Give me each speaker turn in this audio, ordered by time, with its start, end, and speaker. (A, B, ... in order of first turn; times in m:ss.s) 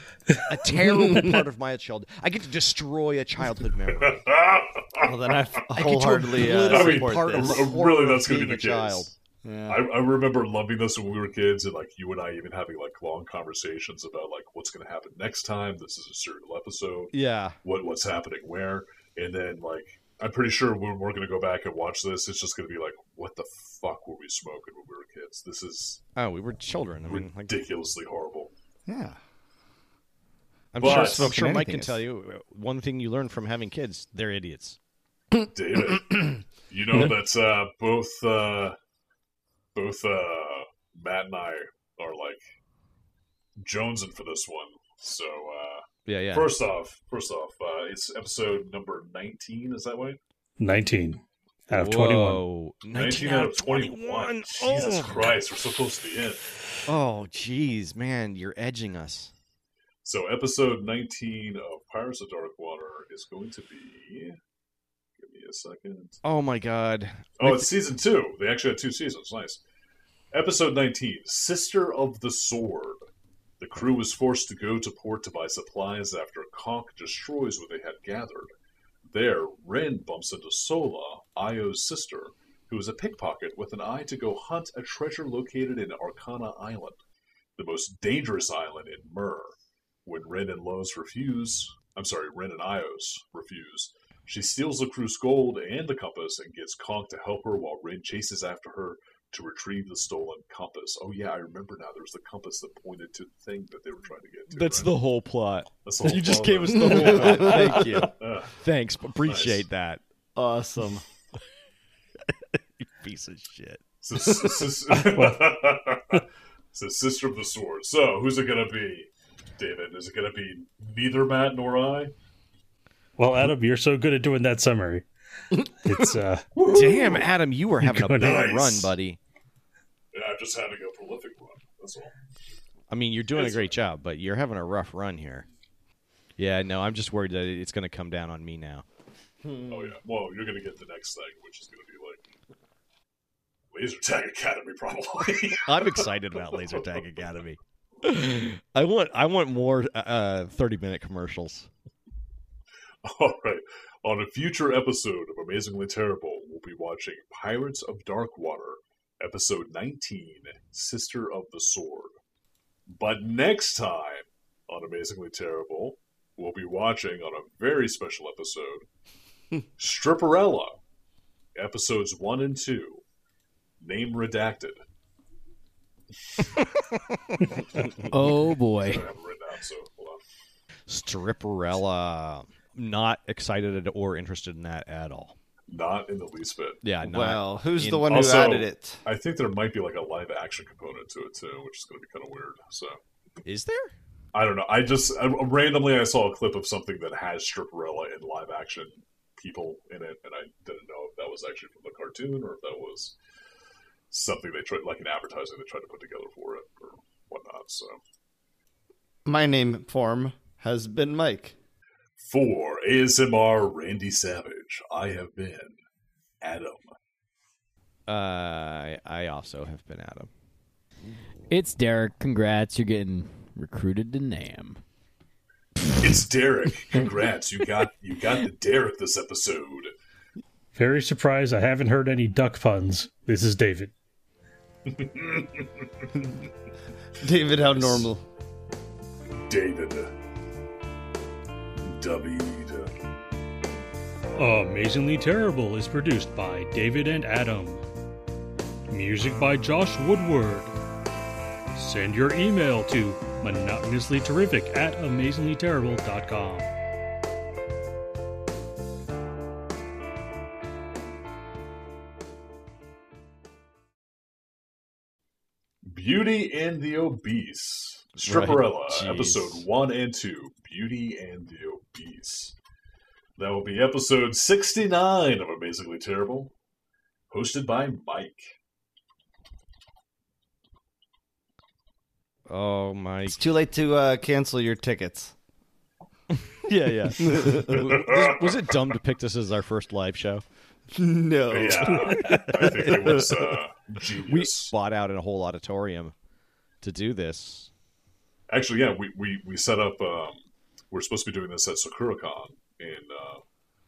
0:00.3-0:04.2 A
0:00.8-0:01.4 B
0:04.0-0:05.1 C
0:05.0-0:07.7 B
0:05.7-0:09.1 A
0:06.5-0:09.1 C
0:09.4-0:09.9 B
0:09.7-0:26.0 C
0:17.1-0:17.6 A
0:26.2-0:27.6 A
0:27.1-0:28.5 C
0:28.9-0:29.2 B
0:30.7-0:34.8 A
0:30.8-0:32.0 B
0:30.8-0:31.3 C
0:35.5-0:38.8 C
0:39.7-0:42.4 C
0:43.6-0:50.2 C
0:46.1-0:46.5 A
0:50.6-0:52.4 D
0:51.7-0:55.4 A
0:52.9-0:56.4 C
0:56.9-0:59.3 A
1:00.0-1:04.4 C
1:05.2-1:06.2 C
1:06.2-1:07.7 A
1:07.4-1:09.6 C
1:10.3-1:13.1 C
1:13.6-1:18.5 C
1:19.1-1:27.0 C
1:27.6-1:45.0 C
1:44.5-1:50.0 A
1:45.8-1:48.6 C
1:46.9-1:48.1 B
1:49.2-1:49.6 C
1:50.4-1:51.0 B
1:52.3-1:53.8 A
1:54.0-2:02.1 C
1:55.1-1:55.5 D
2:03.2-2:05.0 D
2:05.8-2:07.2 D
2:06.7-2:09.2 A
2:07.8-2:08.4 D
2:08.2-2:08.9 C
2:10.1-2:12.1 C
2:12.9-2:15.5 A
2:13.3-2:13.8 C
2:16.4-2:18.8 A
2:19.4-2:19.9 B
2:19.7-2:22.2 C
2:23.7-2:27.0 C
2:25.6-2:31.7 A
2:33.0-2:42.2 C
2:42.9-2:48.8 C
2:49.8-2:50.8 C
2:51.6-2:53.0 C
2:53.8-2:54.8 C
2:58.0-2:59.1 E
2:58.8-3:00.2 C
3:00.9-3:05.4 A
3:05.7-3:06.8 C
3:06.8-3:08.1 A
3:07.0-3:09.0 B
3:08.0-3:13.0 C
3:13.4-3:13.9 A
3:14.3-3:23.1 C
3:24.1-3:28.0 C
3:29.2-3:31.5 B
3:32.2-3:35.8 C
3:36.4-3:36.9 C
3:38.1-3:40.3 A
3:41.5-3:44.8 E
3:46.0-3:49.9 C
3:50.7-3:53.9 D
3:54.9-3:55.7 C
3:56.2-3:56.4 B
3:57.2-3:58.2 B
3:57.7-3:58.0 C
3:59.5-4:00.1 C
4:01.8-4:02.9 C
4:04.4-4:07.8 D
4:08.9-4:10.7 D
4:11.8-4:16.7 D
4:25.8-4:32.5 C
4:28.2-4:29.6 A
4:33.4-4:36.5 C
4:37.3-4:38.5 C
4:42.5-4:43.5 A
4:43.2-4:45.3 B
4:46.3-4:50.4 A
4:47.2-4:48.1 B
4:47.8-4:48.5 C
4:50.9-4:53.4 B
4:51.5-4:54.7 C
4:51.8-4:53.0 A
4:52.0-4:52.6 D
4:54.3-4:56.1 A
4:56.8-4:57.7 A
4:58.5-5:03.4 C